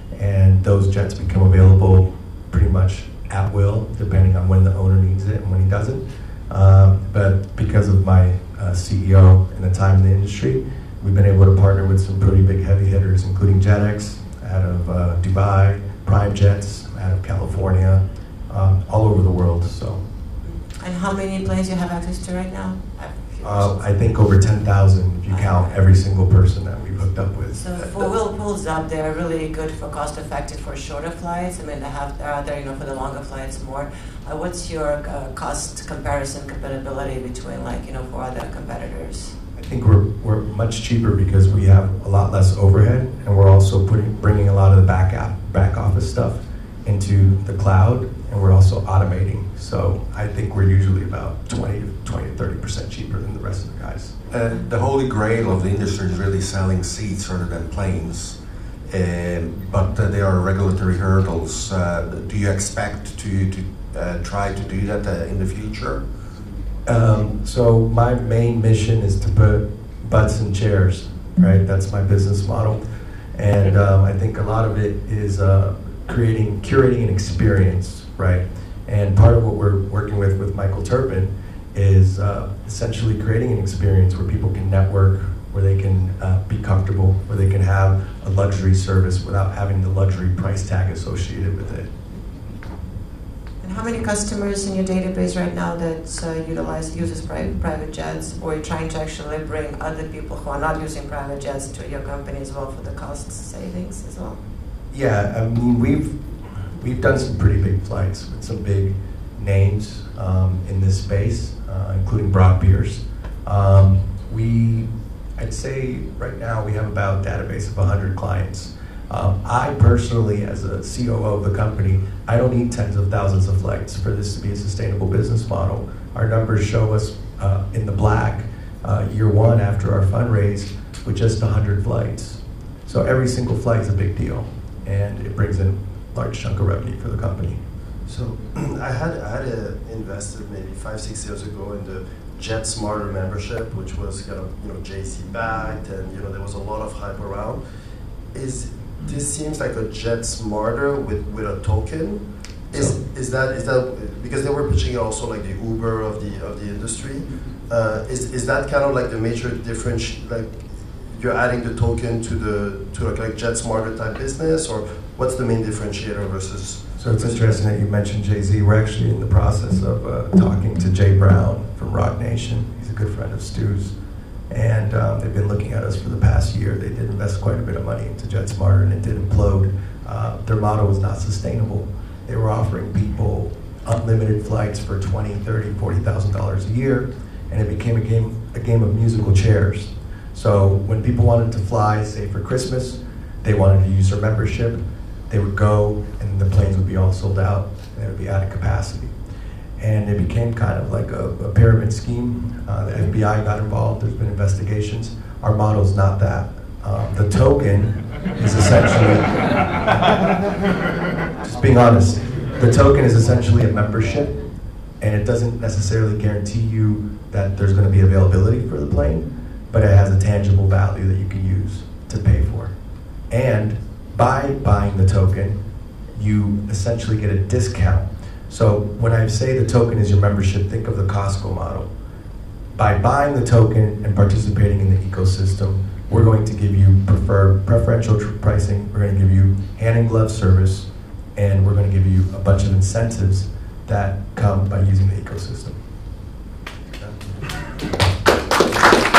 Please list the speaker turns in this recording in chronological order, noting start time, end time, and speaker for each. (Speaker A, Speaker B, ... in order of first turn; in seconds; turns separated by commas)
Speaker A: 0.1-20.0, Speaker B: 20.4-24.1, Speaker A: 23.4-28.1, Speaker B: 25.3-25.8, Speaker B: 27.6-39.3, Speaker A: 39.5-54.1, Speaker C: 54.3-58.3, Speaker C: 58.9-66.0, Speaker A: 66.8-72.8, Speaker A: 73.3-91.9, Speaker B: 93.6-104.4, Speaker A: 104.9-106.2, Speaker A: 106.7-137.6, Speaker D: 138.1-147.6, Speaker D: 148.3-160.5, Speaker D: 161.1-167.5, Speaker A: 166.9-173.9, Speaker A: 174.5-199.1, Speaker A: 199.8-209.3, Speaker A: 211.4-214.4, Speaker A: 215.0-222.7, Speaker A: 223.3-225.6, Speaker A: 226.1-231.9, Speaker A: 232.8-245.7